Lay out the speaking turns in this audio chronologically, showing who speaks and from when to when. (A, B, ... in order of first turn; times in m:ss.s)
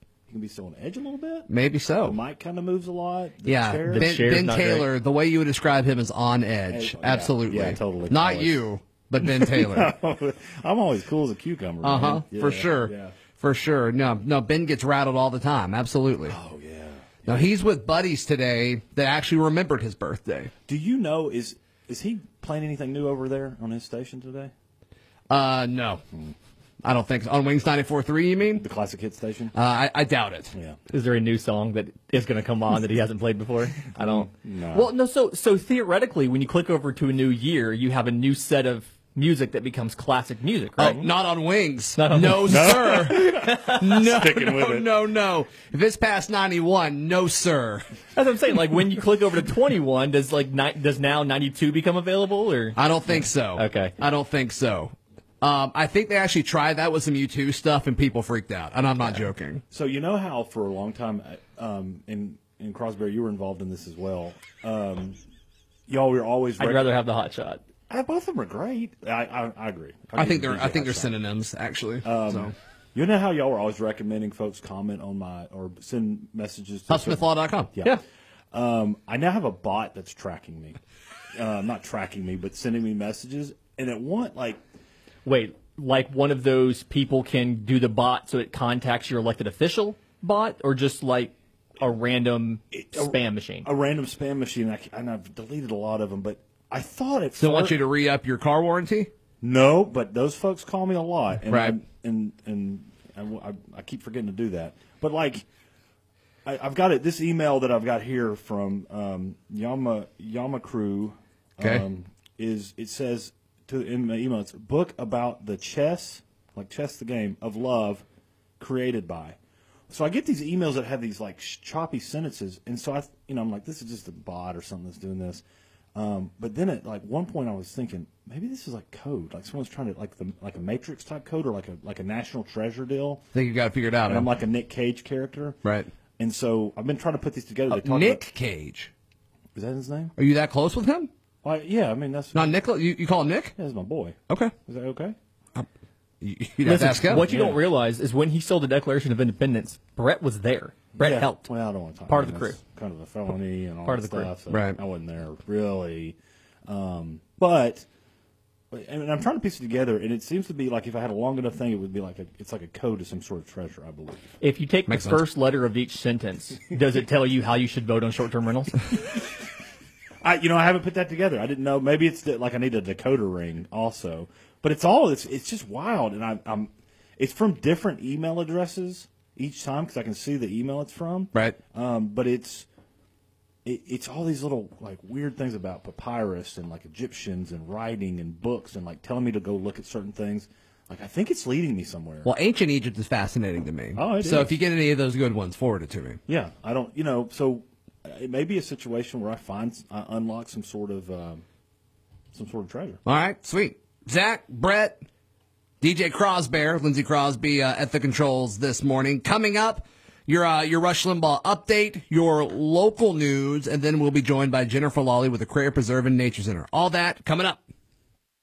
0:00.3-0:01.5 A
0:01.5-0:02.2 B
0:02.0-0:04.2 A
0:03.4-0:09.9 B
0:03.9-0:04.9 C
0:06.7-0:08.7 A
0:09.2-0:13.1 A
0:11.8-0:16.4 B
0:16.3-0:17.4 A
0:17.2-0:20.5 B
0:20.7-0:24.5 A
0:25.3-0:26.0 B
0:26.8-0:28.7 B
0:28.6-0:29.5 A
0:29.5-0:30.5 B
0:30.5-0:30.8 A
0:30.9-0:41.1 C
0:34.0-0:34.9 A
0:40.8-0:47.8 B
0:42.0-0:43.8 C
0:42.4-0:44.9 A
0:48.1-0:53.9 C
0:52.7-0:59.6 B
0:59.7-1:05.2 A
1:05.9-1:07.0 A
1:06.6-1:07.6 C
1:07.9-1:11.2 A
1:10.2-1:12.5 B
1:12.0-1:18.0 A
1:16.9-1:17.8 B
1:18.5-1:20.8 A
1:21.4-1:24.6 A
1:25.2-1:33.7 C
1:32.8-1:37.8 A
1:37.4-1:39.1 B
1:39.4-1:45.4 A
1:41.4-1:41.8 B
1:46.4-1:58.0 A
1:58.6-1:59.4 A
1:59.9-2:05.4 A
2:05.9-2:13.2 A
2:13.3-2:14.3 B
2:14.1-2:15.6 A
2:15.6-2:15.9 B
2:16.2-2:18.2 A
2:17.7-2:18.9 B
2:19.5-2:20.1 A
2:20.2-2:21.1 B
2:21.4-2:22.6 A
2:22.3-2:23.5 B
2:23.5-2:25.1 A
2:24.3-2:24.5 B
2:26.2-2:27.3 B
2:26.6-2:31.5 C
2:26.9-2:27.6 A
2:31.0-2:37.8 A
2:32.1-2:32.6 C
2:33.8-2:34.3 C
2:34.5-2:34.8 B
2:38.7-2:44.3 A
2:44.4-2:48.7 C
2:44.9-2:45.2 B
2:50.2-3:02.6 A
3:03.6-3:12.3 A
3:12.2-3:16.2 B
3:13.9-3:14.6 A
3:16.3-3:21.4 A
3:22.3-3:23.0 A
3:23.0-3:25.0 B
3:25.8-3:37.6 B